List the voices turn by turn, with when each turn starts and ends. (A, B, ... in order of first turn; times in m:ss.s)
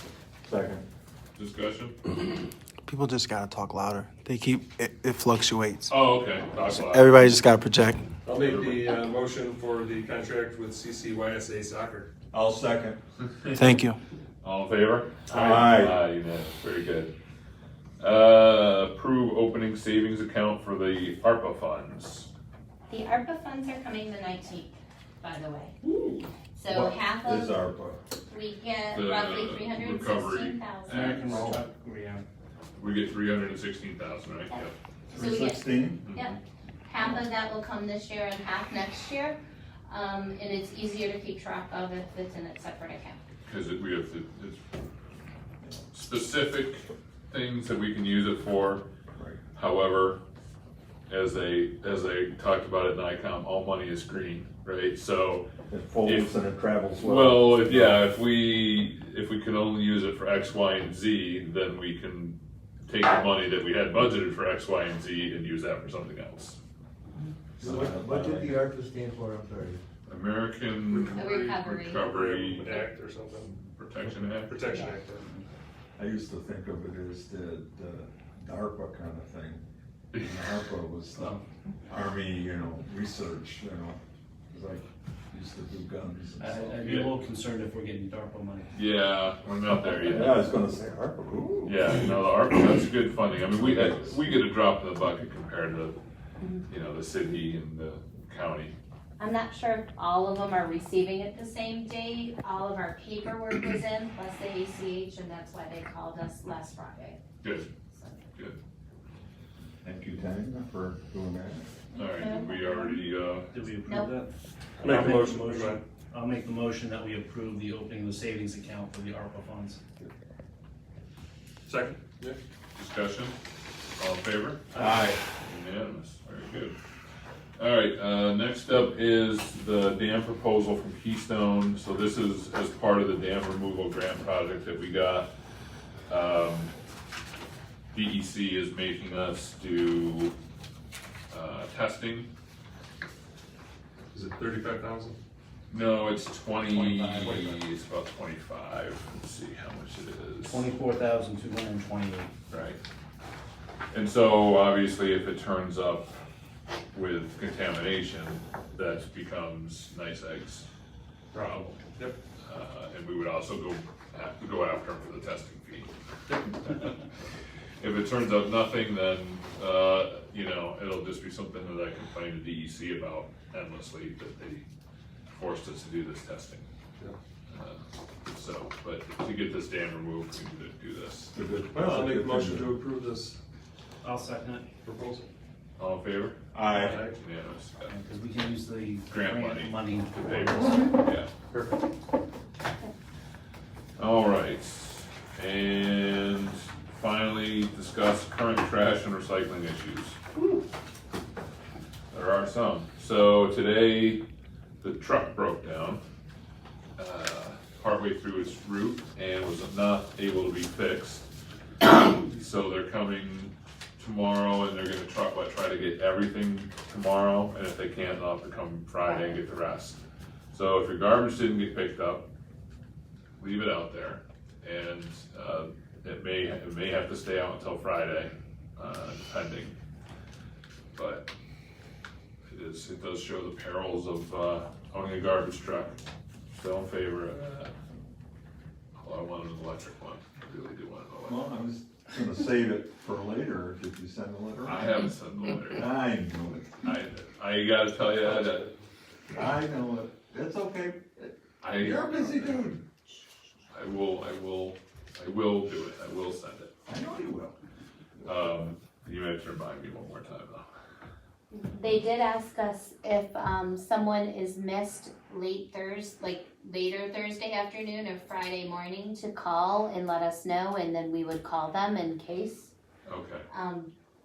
0:00.4-0:00.8 A
0:01.4-0:02.0 B
0:02.9-0:05.9 C
0:05.9-0:07.2 B
0:06.6-0:08.1 C
0:08.2-0:12.1 D
0:08.3-0:08.9 B
0:12.3-0:13.0 A
0:13.2-0:13.8 B
0:13.6-0:14.0 C
0:14.4-0:17.1 B
0:15.3-0:16.0 A
0:18.0-0:22.3 B
0:22.9-0:25.8 E
0:26.6-0:27.6 E
0:26.7-0:28.0 A
0:28.3-0:31.4 E
0:28.9-0:31.3 B
0:30.9-0:32.2 F
0:31.3-0:31.6 A
0:32.8-0:34.7 B
0:34.5-0:39.4 E
0:35.1-0:36.1 A
0:36.0-0:36.3 B
0:39.9-0:43.2 E
0:43.4-0:44.6 B
0:45.9-0:48.8 B
0:49.2-0:49.4 A
0:49.5-0:50.2 B
0:51.1-0:55.4 B
0:55.7-0:58.0 A
0:56.0-0:56.4 B
0:57.0-1:06.6 B
1:07.6-1:08.6 A
1:07.6-1:09.7 G
1:10.1-1:14.6 B
1:10.9-1:13.5 D
1:11.1-1:12.0 E
1:14.4-1:15.2 D
1:16.0-1:19.6 A
1:20.2-1:24.0 A
1:24.5-1:26.8 A
1:26.4-1:28.7 F
1:26.8-1:27.2 B
1:28.7-1:30.5 B
1:30.0-1:31.9 A
1:31.7-1:36.0 B
1:33.5-1:34.2 A
1:36.4-1:36.7 E
1:36.7-1:38.8 B
1:39.2-1:47.2 E
1:47.4-1:47.7 B
1:47.9-1:48.2 E
1:49.8-1:51.7 A
1:51.9-1:53.0 E
1:52.0-1:53.5 B
1:53.5-1:54.3 F
1:53.8-1:54.1 E
1:54.8-1:55.8 D
1:54.8-1:59.8 F
1:54.9-1:55.8 G
2:01.7-2:02.4 D
2:02.8-2:03.3 B
2:04.0-2:04.7 B
2:04.8-2:05.2 A
2:04.8-2:05.0 F
2:05.4-2:06.8 B
2:07.6-2:15.3 B
2:16.1-2:16.7 B
2:17.9-2:20.3 B
2:21.3-2:22.3 B
2:24.1-2:25.2 D
2:25.7-2:30.7 B
2:26.7-2:27.6 F
2:30.4-2:32.3 F
2:32.5-2:32.8 B
2:33.9-2:36.1 B
2:36.9-2:40.6 B
2:41.3-2:42.2 D
2:42.4-2:45.9 B
2:46.6-2:46.9 B
2:47.8-2:54.6 B
2:55.3-2:56.6 B
2:57.5-3:01.3 B
3:01.3-3:02.8 A
3:01.7-3:03.4 D
3:04.0-3:04.6 F
3:04.8-3:05.3 D
3:05.8-3:06.4 B
3:06.5-3:07.1 A
3:06.8-3:07.2 D
3:06.9-3:07.9 B
3:07.8-3:10.8 F
3:09.1-3:11.3 B
3:10.7-3:10.9 E
3:11.5-3:11.8 D
3:14.0-3:20.2 B
3:22.1-3:24.2 B
3:24.8-3:26.0 B
3:27.0-3:31.2 B
3:31.8-3:40.0 B
3:39.0-3:39.4 E
3:40.5-3:42.3 B
3:43.4-3:49.8 B
3:50.9-3:51.3 B
3:52.5-3:56.0 B
3:56.5-3:57.7 B
3:59.0-4:01.5 B
4:01.2-4:04.9 A
4:04.6-4:05.9 B
4:05.7-4:06.8 A
4:06.8-4:08.7 B
4:09.3-4:12.8 A
4:11.6-4:12.8 B
4:13.7-4:16.7 B
4:16.9-4:17.6 A
4:18.2-4:20.6 B
4:21.5-4:32.7 E
4:33.1-4:33.5 B
4:33.5-4:33.9 E